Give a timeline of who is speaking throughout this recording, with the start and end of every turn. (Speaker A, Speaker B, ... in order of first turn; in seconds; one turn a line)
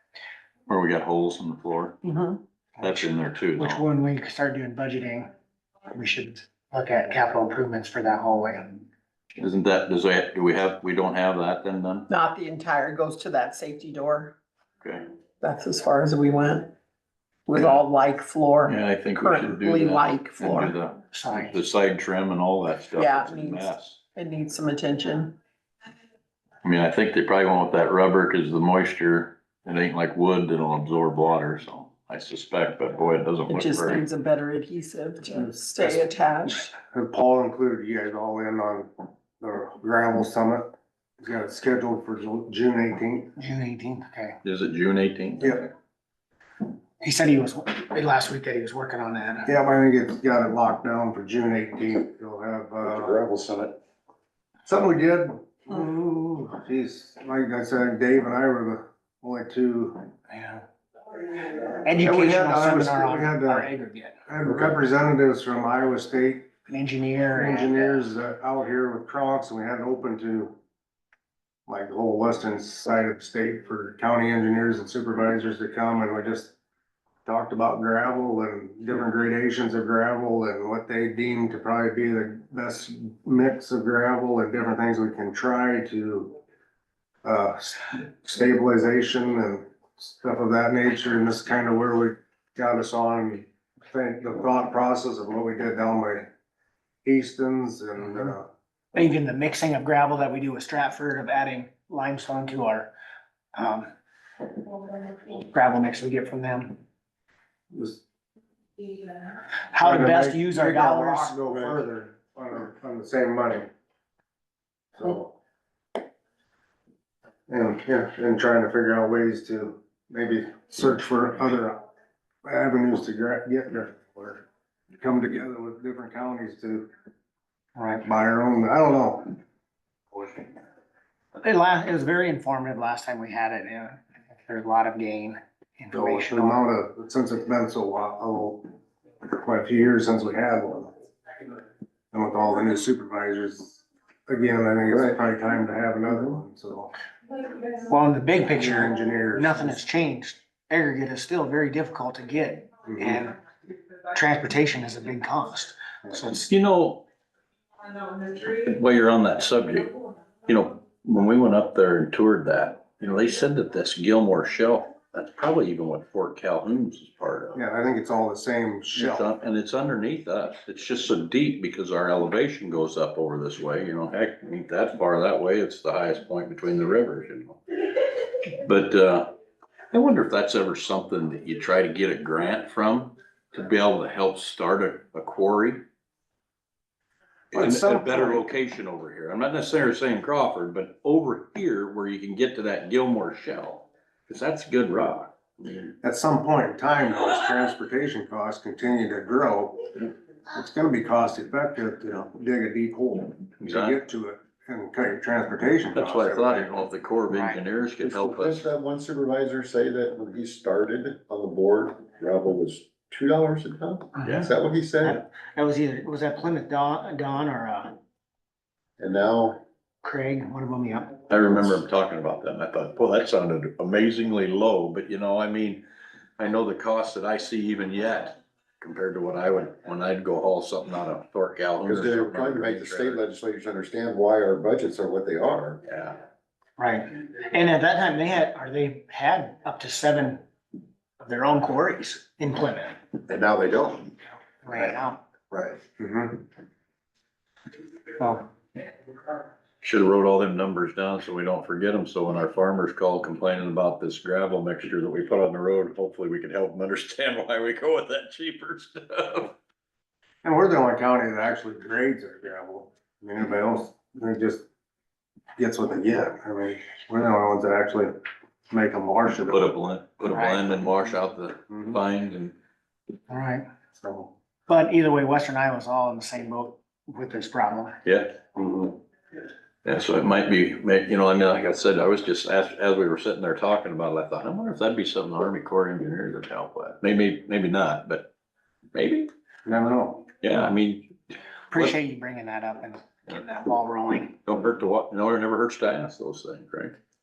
Speaker A: 0.7-2.0
Speaker B: 2.0-2.4
Speaker C: 2.8-5.3
Speaker A: 2.8-3.8
Speaker C: 5.9-8.8
Speaker A: 9.4-12.1
Speaker B: 12.1-14.4
Speaker A: 14.8-15.1
Speaker B: 15.4-16.7
Speaker B: 17.5-20.8
Speaker A: 18.7-24.0
Speaker C: 21.1-21.6
Speaker B: 22.9-25.4
Speaker A: 26.6-34.0
Speaker B: 33.5-36.7
Speaker D: 36.8-40.7
Speaker D: 41.2-43.3
Speaker C: 43.4-44.4
Speaker A: 44.4-45.7
Speaker D: 45.4-45.7
Speaker C: 47.0-49.5
Speaker D: 49.5-53.2
Speaker E: 52.8-53.8
Speaker D: 54.6-60.0
Speaker C: 60.3-60.6
Speaker C: 61.8-64.3
Speaker D: 61.9-63.7
Speaker D: 64.3-66.5
Speaker C: 66.7-68.1
Speaker D: 67.3-70.5
Speaker D: 71.7-76.5
Speaker D: 77.2-86.4
Speaker D: 87.2-96.3
Speaker D: 97.0-98.5
Speaker C: 98.9-102.9
Speaker C: 103.5-103.9
Speaker C: 104.9-106.8
Speaker D: 107.7-108.0
Speaker C: 109.7-111.4
Speaker D: 109.8-113.7
Speaker D: 115.0-115.3
Speaker D: 117.5-121.8
Speaker D: 122.4-124.5
Speaker D: 125.0-126.9
Speaker C: 127.8-128.1
Speaker D: 128.0-129.4
Speaker D: 130.1-130.5
Speaker C: 131.4-136.6
Speaker D: 135.9-138.7
Speaker D: 139.2-140.9
Speaker D: 142.1-146.9
Speaker E: 144.9-145.2
Speaker C: 147.8-153.4
Speaker D: 148.4-149.8
Speaker D: 152.9-153.2
Speaker C: 154.1-156.5
Speaker A: 156.5-157.1
Speaker A: 158.2-159.9
Speaker A: 160.5-167.6
Speaker D: 167.6-169.2
Speaker A: 168.9-177.6
Speaker A: 178.6-179.3
Speaker A: 179.9-185.9
Speaker A: 187.5-195.9
Speaker D: 187.5-188.4
Speaker D: 196.0-206.7
Speaker A: 203.6-204.0
Speaker A: 205.9-208.7
Speaker C: 207.3-207.6
Speaker E: 208.0-215.2
Speaker C: 214.2-214.5
Speaker A: 214.2-214.5
Speaker C: 215.0-217.9
Speaker E: 219.0-219.6
Speaker C: 220.0-221.2
Speaker A: 221.3-225.8
Speaker A: 226.4-233.2
Speaker E: 231.8-235.8
Speaker A: 235.8-236.2
Speaker C: 236.8-240.4
Speaker C: 241.2-243.0
Speaker E: 243.3-244.2
Speaker C: 244.6-245.2
Speaker E: 245.5-245.8
Speaker D: 246.0-246.4
Speaker A: 249.8-259.5
Speaker D: 260.4-264.6
Speaker D: 265.6-268.1
Speaker D: 268.7-269.7
Speaker A: 269.5-272.5
Speaker D: 271.7-272.0
Speaker C: 273.3-273.6
Speaker D: 274.0-274.3
Speaker C: 274.7-278.0
Speaker A: 278.1-279.0
Speaker A: 279.9-288.3
Speaker A: 288.9-289.3
Speaker D: 289.7-290.3
Speaker A: 290.4-291.2
Speaker C: 291.7-294.4
Speaker A: 294.4-297.0